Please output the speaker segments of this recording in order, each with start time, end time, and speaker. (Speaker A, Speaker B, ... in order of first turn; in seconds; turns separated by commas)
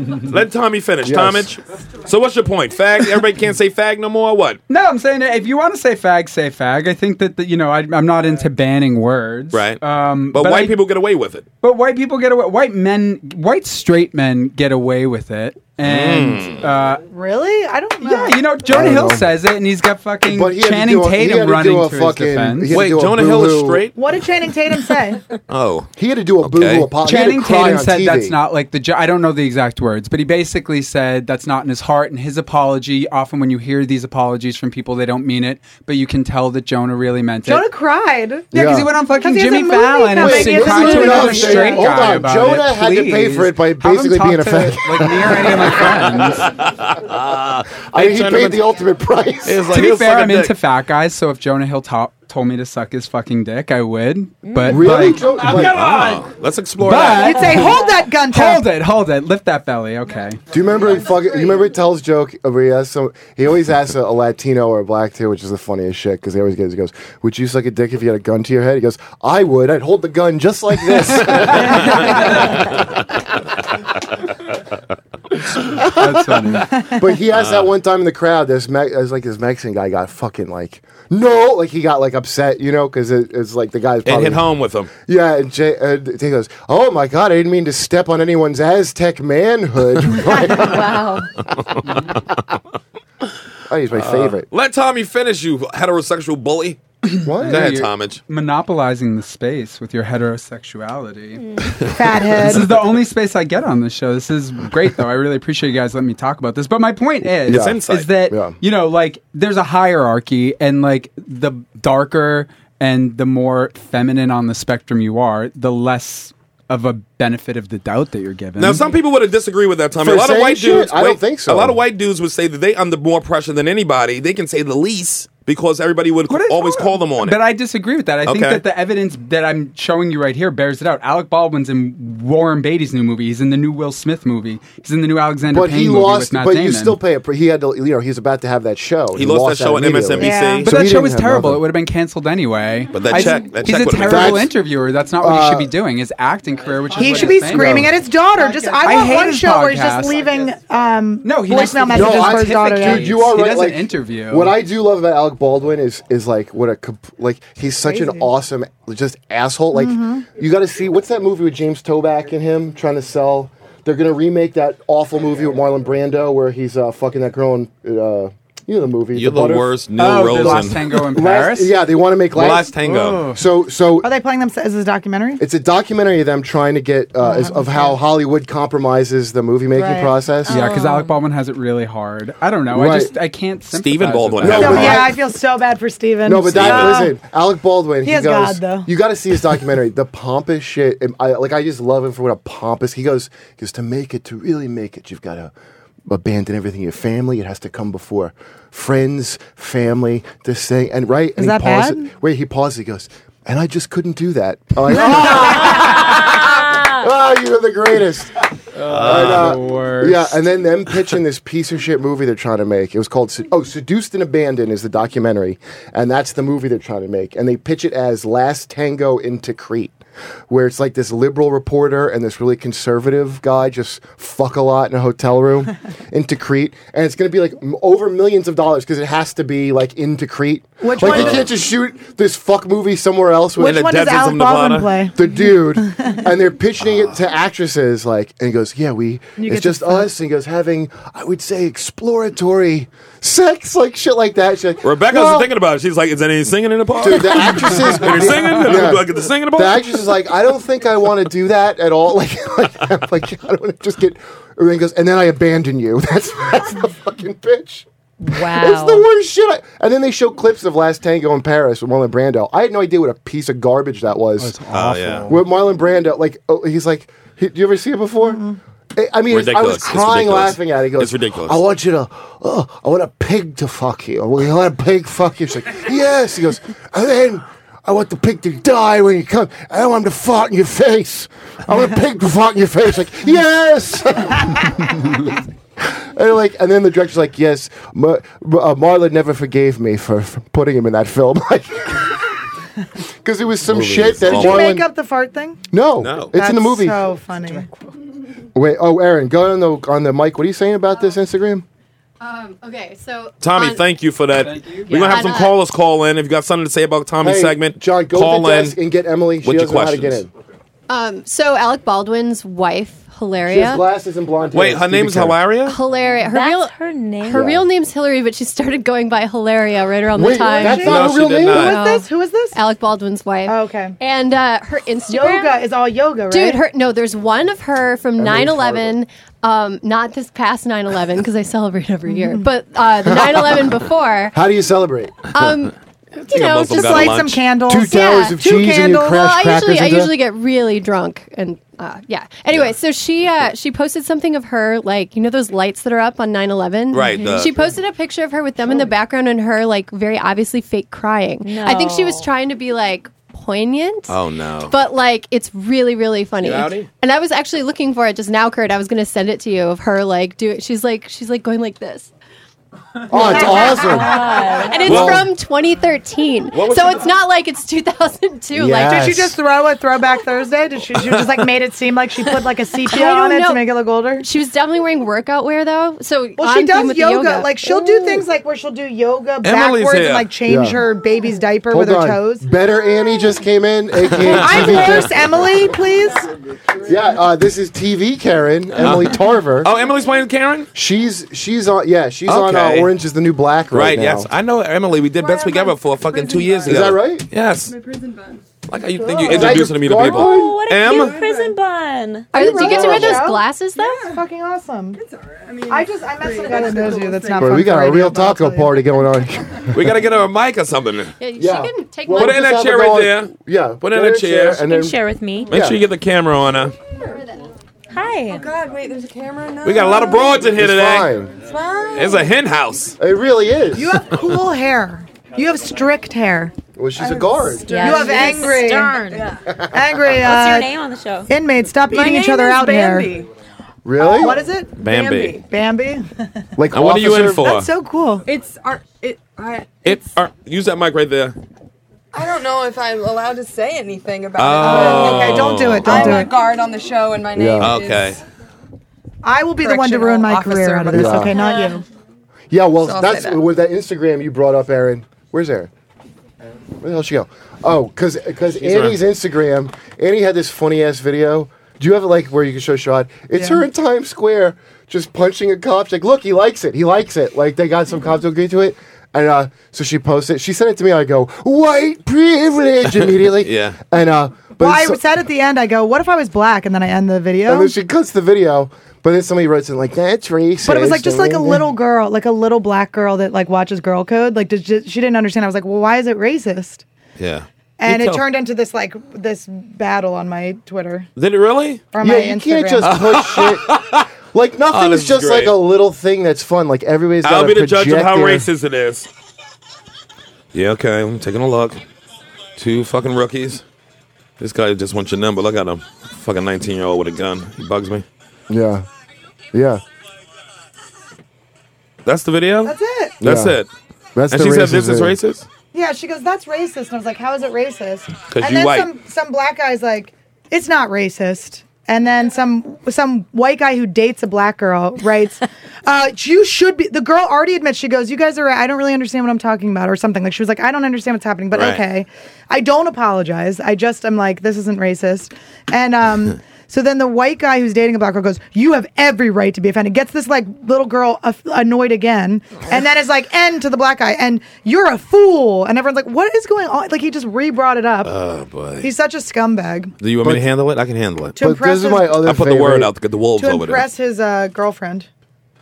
Speaker A: 0.3-4.6, Speaker B: 1.0-1.5, Speaker C: 4.7-10.8, Speaker A: 9.5-11.4, Speaker C: 11.6-17.0, Speaker A: 15.8-16.6, Speaker D: 17.1-18.4, Speaker C: 18.0-22.8, Speaker B: 18.7-19.3, Speaker B: 20.2-23.9, Speaker A: 22.7-23.9, Speaker D: 23.9-25.2, Speaker A: 25.5-25.9, Speaker B: 26.0-28.4, Speaker A: 26.4-26.9, Speaker C: 27.0-37.6, Speaker D: 37.4-38.6, Speaker B: 38.5-38.9, Speaker C: 38.5-46.4, Speaker D: 39.2-42.1, Speaker B: 40.1-46.4, Speaker A: 46.2-48.7, Speaker B: 47.9-49.7, Speaker A: 49.4-50.5, Speaker C: 49.7-55.9, Speaker B: 54.6-56.1, Speaker A: 54.9-57.6, Speaker C: 56.8-60.4, Speaker D: 57.2-58.6, Speaker B: 60.5-72.8, Speaker B: 75.6-84.5, Speaker C: 75.9-76.7, Speaker A: 77.3-77.7, Speaker A: 84.0-84.9, Speaker B: 85.0-91.0, Speaker E: 90.6-91.2, Speaker B: 93.7-94.5, Speaker A: 93.9-96.8, Speaker C: 97.0-101.4, Speaker B: 97.2-97.8, Speaker A: 97.4-98.2, Speaker D: 101.9-102.7, Speaker C: 102.4-118.8, Speaker A: 107.4-108.1, Speaker B: 107.5-108.6, Speaker A: 118.6-127.4, Speaker B: 120.0-121.8, Speaker C: 126.3-137.0, Speaker A: 128.2-128.6, Speaker B: 135.5-141.6, Speaker A: 139.1-140.7, Speaker D: 140.2-140.7, Speaker C: 140.6-147.9, Speaker A: 142.9-144.5, Speaker B: 144.0-144.5, Speaker B: 145.2-145.7, Speaker D: 146.9-153.2, Speaker B: 147.3-147.9, Speaker C: 148.8-150.2, Speaker C: 151.2-154.5, Speaker B: 151.7-174.1, Speaker D: 157.8-158.3, Speaker D: 159.7-160.2, Speaker A: 169.1-170.8, Speaker C: 170.0-171.7, Speaker A: 172.3-173.3, Speaker C: 172.8-173.4, Speaker D: 174.0-175.4, Speaker B: 175.4-180.6, Speaker D: 177.2-177.9, Speaker D: 179.8-180.1, Speaker E: 180.5-181.2, Speaker C: 180.5-185.0, Speaker B: 182.7-183.1, Speaker A: 183.7-185.1, Speaker B: 184.4-185.1, Speaker D: 184.5-187.1, Speaker B: 186.2-195.5, Speaker A: 186.5-187.0, Speaker D: 188.0-188.9, Speaker B: 196.1-208.3, Speaker D: 201.4-202.1, Speaker C: 208.8-210.4, Speaker A: 208.8-209.6, Speaker B: 209.0-219.9, Speaker B: 220.5-233.8, Speaker D: 230.8-231.5, Speaker A: 231.0-231.4, Speaker D: 233.6-236.2, Speaker A: 233.6-235.0, Speaker B: 235.1-245.5, Speaker A: 236.8-237.1, Speaker D: 239.4-240.1, Speaker A: 244.8-249.8, Speaker B: 247.0-264.5, Speaker E: 258.2-259.0, Speaker C: 264.4-265.4, Speaker A: 264.7-265.3, Speaker B: 265.3-268.4, Speaker D: 268.2-268.6, Speaker B: 268.9-285.3, Speaker A: 269.3-271.6, Speaker B: 285.8-292.3, Speaker B: 293.2-294.8, Speaker A: 293.7-294.7, Speaker D: 294.3-295.6, Speaker B: 295.7-297.0, Speaker A: 296.0-296.3, Speaker D: 296.3-297.7, Speaker B: 298.5-301.6, Speaker F: 302.2-303.8, Speaker A: 303.4-308.8, Speaker C: 304.3-305.0, Speaker F: 304.9-305.6, Speaker B: 307.2-310.3, Speaker A: 309.4-310.2, Speaker F: 310.9-313.8, Speaker B: 313.4-315.4, Speaker A: 314.5-315.8, Speaker F: 315.6-320.9, Speaker E: 316.2-317.4, Speaker B: 317.3-317.6, Speaker B: 320.1-321.7, Speaker D: 320.3-322.6, Speaker A: 320.8-321.8, Speaker F: 321.6-325.6, Speaker D: 323.4-324.0, Speaker D: 325.1-326.6, Speaker F: 326.3-334.4, Speaker B: 328.2-328.9, Speaker D: 332.1-332.4, Speaker B: 333.1-333.7, Speaker B: 334.3-335.1, Speaker F: 335.3-338.4, Speaker A: 336.3-337.4, Speaker D: 336.7-339.3, Speaker B: 337.7-340.1, Speaker F: 339.1-354.2, Speaker A: 346.9-347.7, Speaker E: 351.4-352.3, Speaker A: 354.1-354.7, Speaker F: 354.7-362.1, Speaker A: 356.4-356.9, Speaker B: 363.1-364.2, Speaker D: 363.1-364.6, Speaker E: 363.2-364.9, Speaker F: 363.3-369.1, Speaker B: 364.8-365.3, Speaker A: 364.9-365.3, Speaker A: 366.5-367.1, Speaker B: 368.5-369.4, Speaker D: 368.8-374.2, Speaker F: 372.8-373.7, Speaker F: 374.2-377.9, Speaker D: 376.4-382.4, Speaker A: 379.4-380.3, Speaker B: 380.4-380.8, Speaker B: 381.7-385.4, Speaker A: 384.0-385.1, Speaker D: 384.3-386.2, Speaker B: 386.8-389.7, Speaker A: 388.8-390.7, Speaker B: 390.7-394.3, Speaker A: 392.3-392.9, Speaker A: 393.7-397.7, Speaker G: 395.1-396.8, Speaker B: 396.6-397.3, Speaker G: 397.6-398.5, Speaker A: 398.7-401.2, Speaker G: 399.0-401.6, Speaker D: 399.1-399.5, Speaker B: 399.2-400.6, Speaker E: 400.0-402.3, Speaker F: 402.3-404.0, Speaker D: 402.3-405.0, Speaker B: 402.4-403.2, Speaker G: 403.8-404.2, Speaker G: 404.9-407.6, Speaker D: 405.7-408.8, Speaker B: 407.4-409.9, Speaker A: 409.7-411.1, Speaker F: 411.2-412.4, Speaker B: 411.4-415.0, Speaker A: 412.1-414.6, Speaker E: 414.6-415.5, Speaker B: 415.5-415.8, Speaker A: 415.5-416.7, Speaker E: 417.9-418.4, Speaker G: 418.3-420.6, Speaker A: 419.6-421.1, Speaker B: 420.5-421.4, Speaker G: 421.4-422.3, Speaker A: 421.9-422.9, Speaker B: 423.0-424.0, Speaker D: 423.7-426.5, Speaker B: 426.8-427.8, Speaker G: 427.0-429.5, Speaker E: 427.6-429.3, Speaker D: 427.7-429.0, Speaker D: 429.7-430.7, Speaker E: 430.2-431.3, Speaker D: 431.3-433.1, Speaker G: 431.9-433.3, Speaker B: 433.8-434.4, Speaker G: 434.0-435.4, Speaker D: 434.2-434.7, Speaker A: 434.8-435.4, Speaker D: 435.5-436.4, Speaker B: 436.6-437.5, Speaker A: 436.7-437.7, Speaker D: 437.4-438.2, Speaker G: 438.2-440.0, Speaker A: 439.8-441.4, Speaker G: 442.1-448.2, Speaker A: 444.4-446.2, Speaker D: 444.6-446.3, Speaker B: 447.3-447.8, Speaker A: 447.6-448.2, Speaker D: 449.2-451.8, Speaker G: 449.6-451.8, Speaker B: 450.9-451.4, Speaker B: 452.5-455.7, Speaker G: 452.8-453.4, Speaker B: 456.8-475.0, Speaker A: 458.6-458.9, Speaker D: 463.4-463.6, Speaker A: 473.4-473.8, Speaker D: 474.6-477.7, Speaker B: 477.4-481.7, Speaker D: 480.6-486.8, Speaker A: 487.2-488.2, Speaker D: 487.8-491.1, Speaker A: 491.1-491.8, Speaker D: 491.9-492.9, Speaker B: 492.0-493.8, Speaker A: 492.8-494.1, Speaker B: 494.3-498.5, Speaker A: 494.7-495.6, Speaker A: 497.2-499.1, Speaker A: 500.5-501.8, Speaker A: 502.6-503.6, Speaker A: 504.4-508.0, Speaker B: 508.5-508.9, Speaker B: 509.5-509.8, Speaker A: 512.0-513.7, Speaker D: 512.6-513.2, Speaker B: 513.2-513.6, Speaker B: 514.1-515.2, Speaker A: 514.3-515.5, Speaker D: 515.7-548.1, Speaker A: 518.3-518.9, Speaker A: 531.5-531.8, Speaker A: 548.0-548.9, Speaker D: 548.8-549.9, Speaker A: 550.0-551.4, Speaker D: 551.4-552.2, Speaker B: 551.4-552.9, Speaker A: 552.2-553.9, Speaker D: 553.4-555.1